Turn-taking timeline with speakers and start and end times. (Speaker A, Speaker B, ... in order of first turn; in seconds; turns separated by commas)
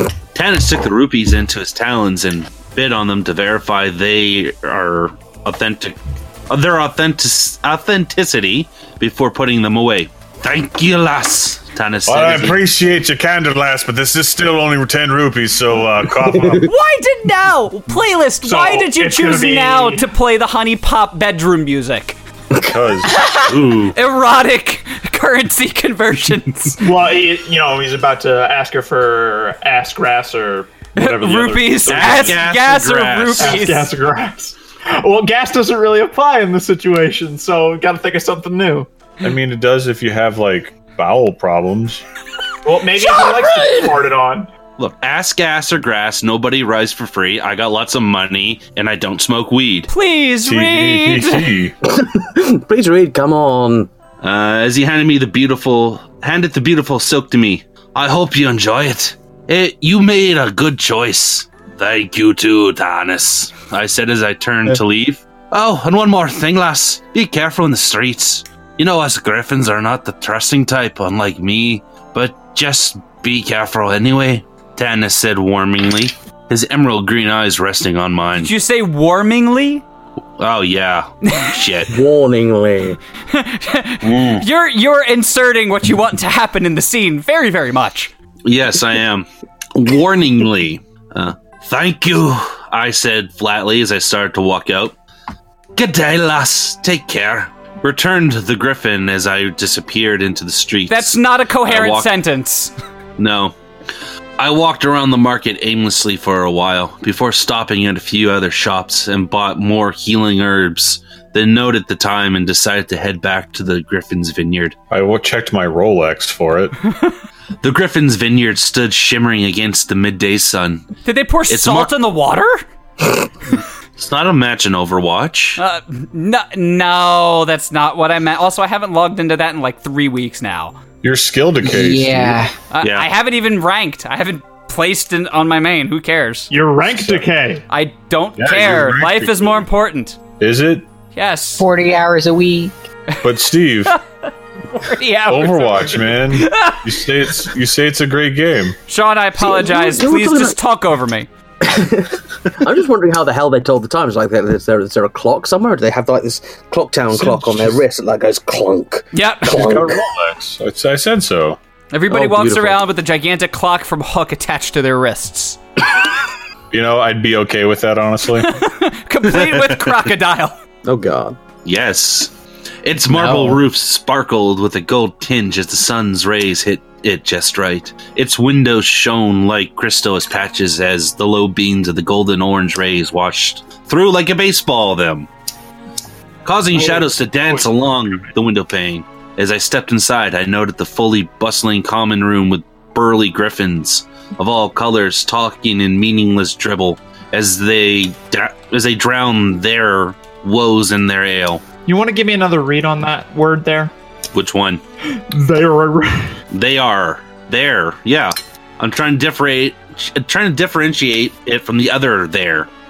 Speaker A: 0.3-6.0, Speaker A: 6.5-12.6, Speaker B: 12.1-16.7, Speaker C: 16.6-22.2, Speaker D: 18.4-20.1, Speaker B: 22.6-23.2, Speaker C: 23.1-26.8, Speaker A: 23.4-23.9, Speaker D: 26.8-32.4, Speaker C: 30.9-33.9, Speaker B: 31.0-31.9, Speaker A: 31.9-33.7, Speaker D: 33.4-38.9, Speaker B: 39.2-42.0, Speaker D: 42.6-44.5, Speaker A: 44.8-49.9, Speaker C: 49.9-51.5, Speaker B: 50.4-51.7, Speaker E: 51.9-53.9, Speaker A: 54.2-78.5, Speaker C: 78.4-79.8, Speaker A: 80.4-81.9, Speaker E: 81.9-83.0, Speaker C: 83.3-88.1, Speaker A: 84.0-84.4, Speaker A: 88.4-95.0, Speaker A: 95.8-102.1, Speaker C: 100.9-102.7, Speaker A: 103.2-103.5, Speaker A: 104.4-114.8, Speaker B: 114.9-116.8, Speaker A: 117.6-120.9, Speaker C: 121.0-122.6, Speaker A: 121.5-121.9, Speaker A: 124.0-125.6, Speaker C: 125.6-130.8, Speaker B: 131.0-132.4, Speaker F: 131.6-132.5, Speaker C: 132.7-136.5, Speaker A: 132.8-133.1, Speaker D: 136.5-137.6, Speaker B: 136.8-137.3, Speaker C: 137.7-140.2, Speaker B: 138.4-139.7, Speaker B: 140.4-140.9, Speaker C: 141.1-141.6, Speaker F: 141.6-142.8, Speaker B: 143.2-143.9, Speaker C: 144.7-146.8, Speaker B: 145.3-148.8, Speaker C: 148.9-151.3, Speaker E: 149.4-150.6, Speaker E: 151.6-160.0, Speaker B: 157.1-157.8, Speaker C: 159.1-159.6, Speaker B: 159.4-161.6, Speaker C: 161.9-165.6, Speaker E: 162.1-162.8, Speaker B: 166.7-168.6, Speaker C: 168.4-170.5, Speaker A: 169.4-169.8, Speaker E: 170.8-171.4, Speaker A: 171.6-172.3, Speaker A: 172.8-185.3, Speaker E: 173.1-173.6, Speaker A: 186.4-201.6, Speaker D: 186.7-188.3, Speaker D: 201.8-203.9, Speaker A: 204.3-204.8, Speaker D: 205.2-206.4, Speaker A: 206.5-212.7